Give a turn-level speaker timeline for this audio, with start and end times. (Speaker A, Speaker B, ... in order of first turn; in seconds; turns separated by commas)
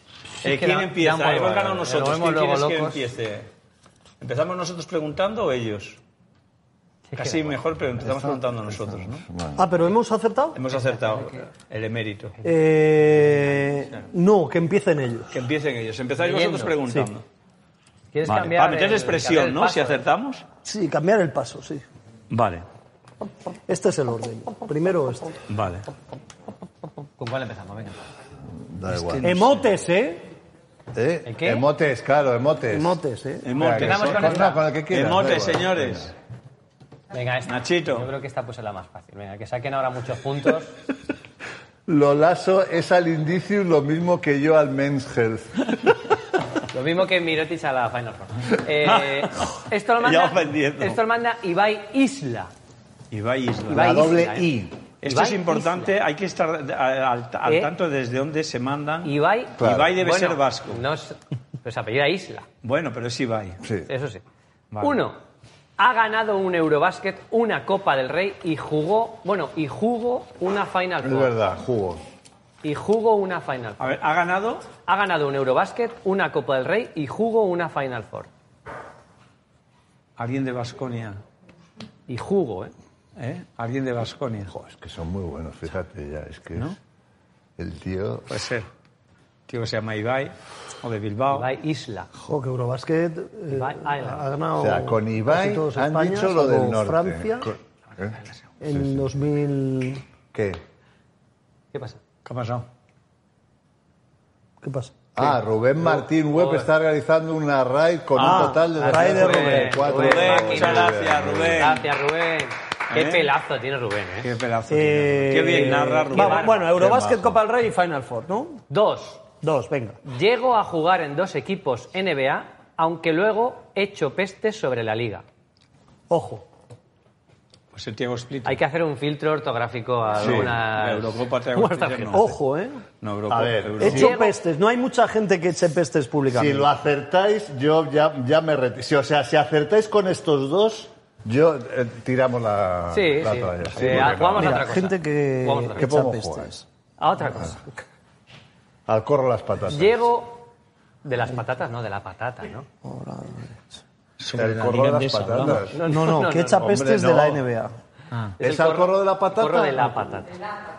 Speaker A: 0.4-3.0, Speaker B: 0.4-3.5, Speaker B: 4.2-6.0, Speaker A: 7.1-7.5, Speaker B: 7.2-9.2, Speaker C: 8.7-9.7, Speaker D: 9.6-10.6, Speaker B: 10.5-12.4, Speaker A: 10.7-11.5, Speaker D: 12.4-15.3, Speaker B: 15.3-17.2, Speaker A: 16.2-16.8, Speaker A: 18.1-20.0, Speaker B: 18.3-20.4, Speaker D: 20.6-21.8, Speaker B: 22.3-22.6, Speaker D: 23.7-25.4, Speaker B: 25.5-25.9, Speaker A: 27.0-28.0, Speaker C: 28.5-29.3, Speaker B: 28.8-29.7, Speaker D: 29.2-30.3, Speaker C: 30.9-33.0, Speaker A: 31.2-31.6, Speaker D: 32.7-33.5, Speaker B: 33.4-36.1, Speaker C: 33.5-36.1, Speaker A: 33.7-34.6, Speaker A: 37.1-40.7, Speaker B: 37.5-38.1, Speaker C: 41.9-46.0, Speaker A: 46.7-52.5, Speaker B: 48.8-51.0, Speaker B: 53.1-54.1, Speaker A: 53.7-54.5, Speaker C: 53.7-54.8, Speaker B: 55.0-60.8, Speaker A: 55.0-55.9, Speaker A: 57.4-57.7, Speaker A: 59.0-62.5, Speaker C: 59.6-60.0, Speaker B: 62.6-63.6, Speaker C: 63.6-63.9, Speaker A: 63.9-64.2, Speaker B: 64.7-65.0, Speaker A: 64.8-65.2, Speaker A: 65.8-71.3, Speaker C: 71.0-72.0, Speaker A: 72.6-73.9, Speaker B: 73.8-74.7, Speaker A: 74.8-78.3, Speaker B: 80.2-81.2, Speaker A: 82.1-82.7, Speaker B: 83.2-84.5, Speaker C: 84.5-86.8, Speaker C: 87.6-88.4, Speaker B: 88.3-88.7, Speaker B: 89.5-91.5, Speaker A: 91.3-92.1, Speaker D: 92.3-97.5, Speaker A: 93.5-94.3, Speaker C: 94.6-99.2, Speaker D: 98.6-100.0, Speaker C: 100.3-100.6, Speaker A: 101.7-102.0, Speaker B: 102.2-102.7, Speaker D: 104.6-105.0, Speaker C: 105.2-111.7, Speaker A: 106.3-106.7, Speaker D: 108.2-110.2, Speaker B: 108.2-109.2, Speaker A: 108.8-114.3, Speaker B: 109.8-111.9, Speaker B: 112.9-113.3, Speaker B: 114.2-116.7, Speaker D: 114.7-118.6, Speaker A: 115.5-116.6, Speaker C: 116.7-117.4, Speaker A: 118.7-119.2, Speaker D: 119.4-120.0, Speaker A: 120.0-125.2, Speaker D: 126.1-126.4, Speaker B: 127.7-128.6, Speaker A: 128.4-132.3, Speaker C: 130.2-130.6, Speaker B: 130.2-132.3, Speaker D: 132.1-132.8, Speaker B: 133.0-134.1, Speaker C: 133.3-134.2, Speaker D: 133.8-136.7, Speaker A: 133.8-134.3, Speaker C: 136.3-144.7, Speaker A: 142.9-145.9, Speaker D: 143.9-146.6, Speaker C: 145.7-146.5, Speaker A: 147.0-147.7, Speaker C: 148.9-150.1, Speaker A: 149.7-150.5, Speaker A: 151.0-152.7, Speaker D: 152.8-153.8, Speaker B: 154.2-155.7, Speaker C: 154.3-155.8, Speaker A: 155.7-156.6, Speaker D: 155.8-157.8, Speaker C: 156.4-157.4, Speaker B: 158.1-158.4, Speaker C: 158.4-160.0, Speaker A: 158.4-160.3